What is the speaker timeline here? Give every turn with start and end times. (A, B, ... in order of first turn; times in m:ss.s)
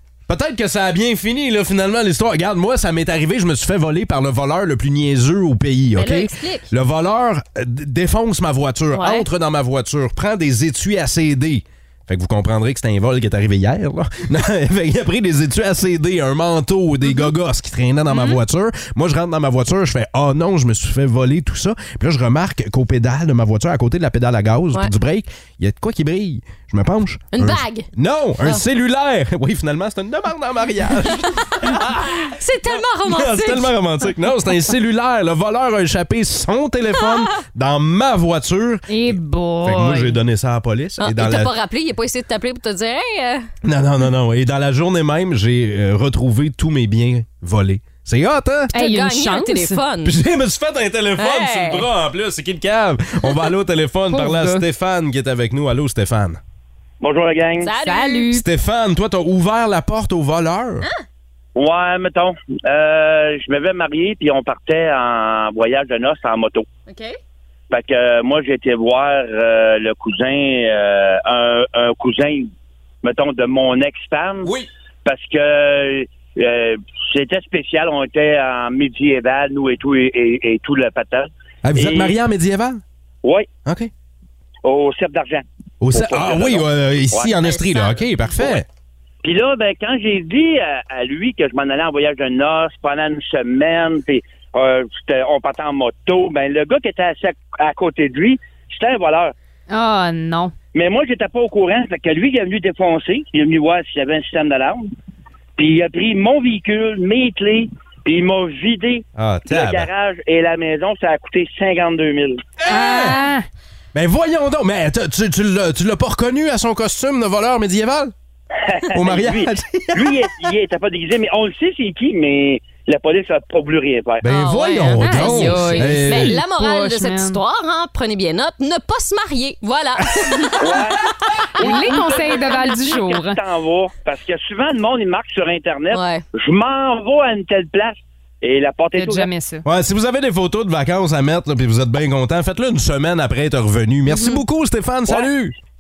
0:00.3-0:32.3 A
0:05.9-0:06.7 B
0:08.9-0:09.3 B
0:17.0-0:17.3 B
0:27.3-0:28.6 B
0:32.2-0:33.8 B
0:33.0-0:41.5 A
0:37.0-0:37.3 B
0:38.9-0:40.2 C
0:41.0-0:43.5 B
0:43.6-0:48.7 A
0:48.7-0:50.2 B
0:48.7-0:49.8 C
0:50.0-0:56.4 A
0:51.2-0:51.9 B
0:54.1-0:54.6 C
0:57.0-0:57.7 D
0:57.6-0:58.3 B
0:57.8-0:58.4 C
0:58.3-1:00.9 A
1:01.6-1:06.7 D
1:06.9-1:07.1 B
1:07.7-1:12.5 D
1:13.0-1:14.5 D
1:15.0-1:22.2 D
1:21.6-1:22.8 A
1:23.2-1:23.6 D
1:23.6-1:23.9 A
1:24.6-1:27.3 D
1:25.8-1:28.7 A
1:27.3-1:28.4 B
1:29.2-1:39.3 D
1:39.7-1:40.5 C
1:40.7-1:44.9 D
1:45.6-1:52.4 D
1:49.2-1:49.9 A
1:52.6-1:53.2 A
1:52.7-1:53.4 C
1:53.9-1:58.1 A
1:58.7-2:04.2 D
1:58.9-2:00.5 A
2:04.2-2:06.4 A
2:04.3-2:10.8 B
2:05.0-2:07.4 C
2:10.6-2:11.1 D
2:11.6-2:12.9 B
2:11.6-2:13.4 C
2:11.6-2:19.3 D
2:15.9-2:16.2 B
2:19.0-2:19.6 C
2:19.6-2:25.5 A
2:24.1-2:24.4 B